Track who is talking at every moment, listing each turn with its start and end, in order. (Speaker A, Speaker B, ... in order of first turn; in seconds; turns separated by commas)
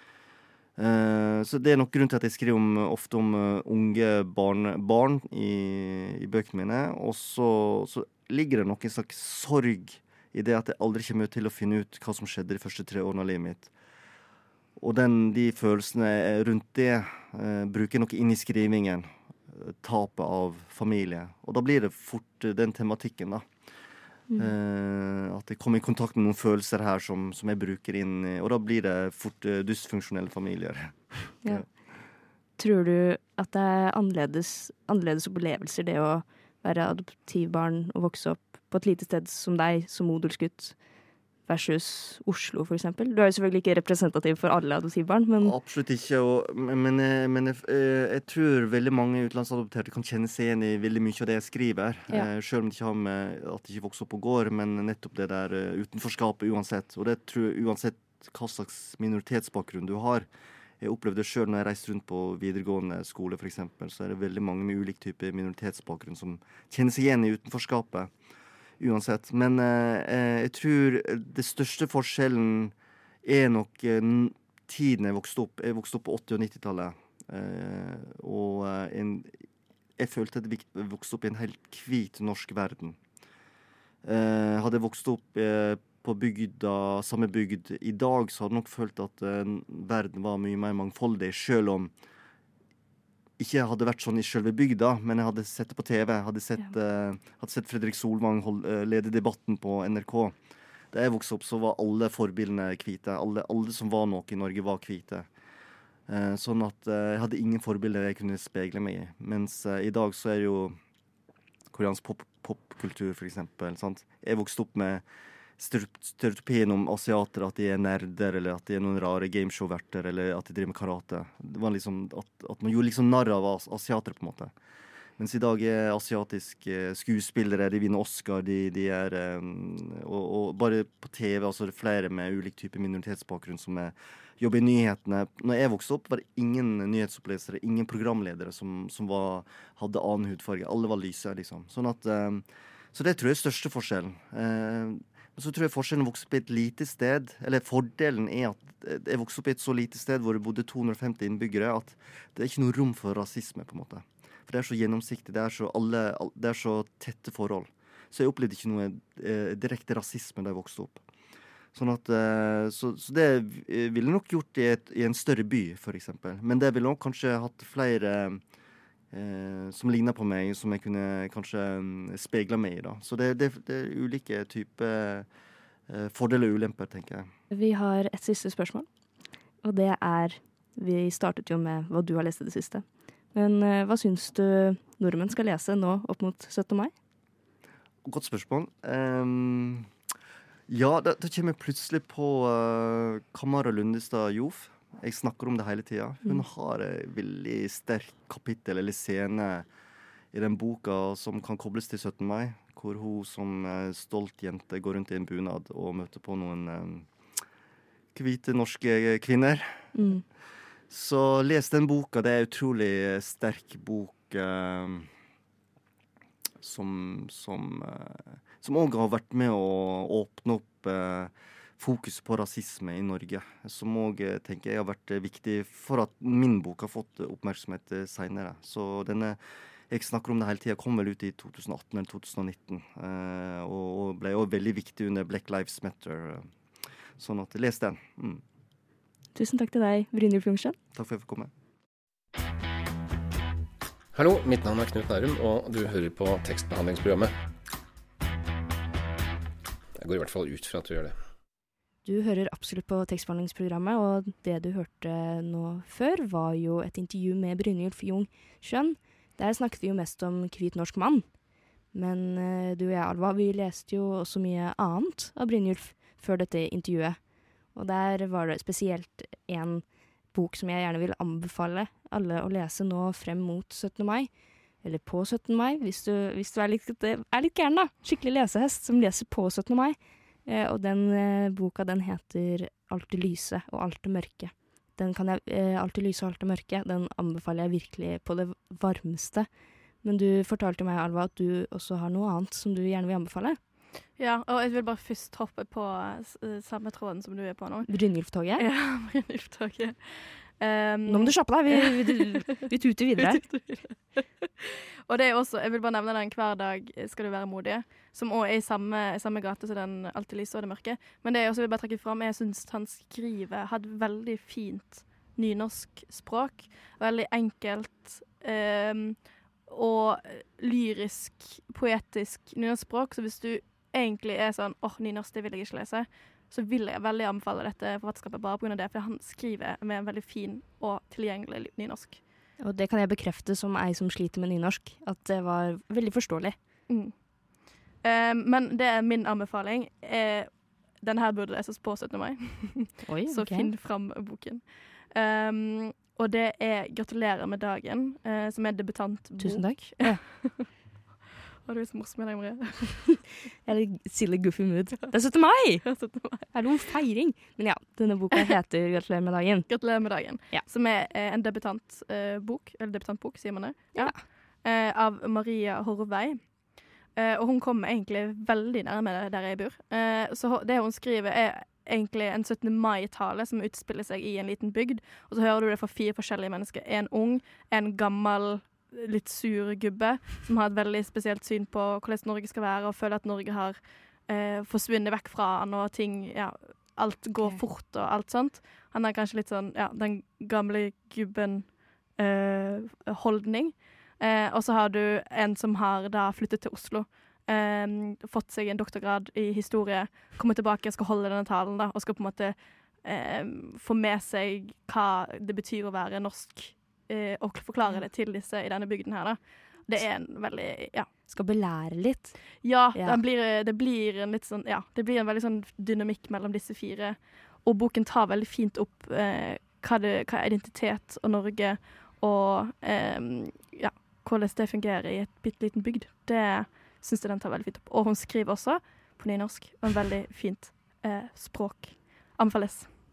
Speaker A: 0.8-13.7, Speaker A: 14.8-23.4, Speaker A: 24.4-31.7, Speaker B: 32.6-40.8, Speaker B: 41.5-45.5, Speaker A: 45.4-60.3, Speaker A: 60.8-68.1, Speaker A: 68.8-72.7, Speaker A: 73.2-79.3, Speaker A: 80.0-83.0, Speaker A: 84.0-91.9, Speaker A: 93.4-100.3, Speaker A: 100.9-105.3, Speaker A: 106.1-110.8, Speaker A: 111.7-115.0, Speaker A: 115.6-124.5, Speaker A: 125.2-161.0, Speaker A: 161.7-168.4, Speaker A: 169.1-175.3, Speaker A: 175.9-177.3, Speaker B: 177.5-178.9, Speaker B: 179.6-186.9, Speaker A: 188.0-189.9, Speaker A: 190.7-199.7, Speaker A: 200.3-207.1, Speaker A: 208.1-209.9, Speaker B: 209.9-210.2, Speaker A: 210.9-215.1, Speaker A: 216.6-229.4, Speaker A: 229.9-236.5, Speaker A: 237.2-238.4, Speaker B: 239.3-240.8, Speaker A: 240.9-241.5, Speaker C: 244.1-247.3, Speaker C: 250.0-251.2, Speaker B: 252.1-261.3, Speaker B: 261.9-274.3, Speaker B: 274.8-289.5, Speaker B: 290.0-293.6, Speaker D: 294.2-297.9, Speaker B: 297.9-298.7, Speaker D: 298.6-302.5, Speaker B: 301.1-303.5, Speaker D: 303.2-332.2, Speaker B: 332.6-336.6, Speaker D: 336.9-350.7, Speaker B: 343.1-343.7, Speaker B: 349.4-350.5, Speaker D: 351.6-353.2, Speaker B: 353.6-355.9, Speaker D: 355.9-356.5, Speaker B: 356.5-360.6, Speaker D: 359.7-366.4, Speaker B: 363.9-364.2, Speaker D: 367.1-411.1, Speaker B: 411.3-413.2, Speaker D: 412.6-432.9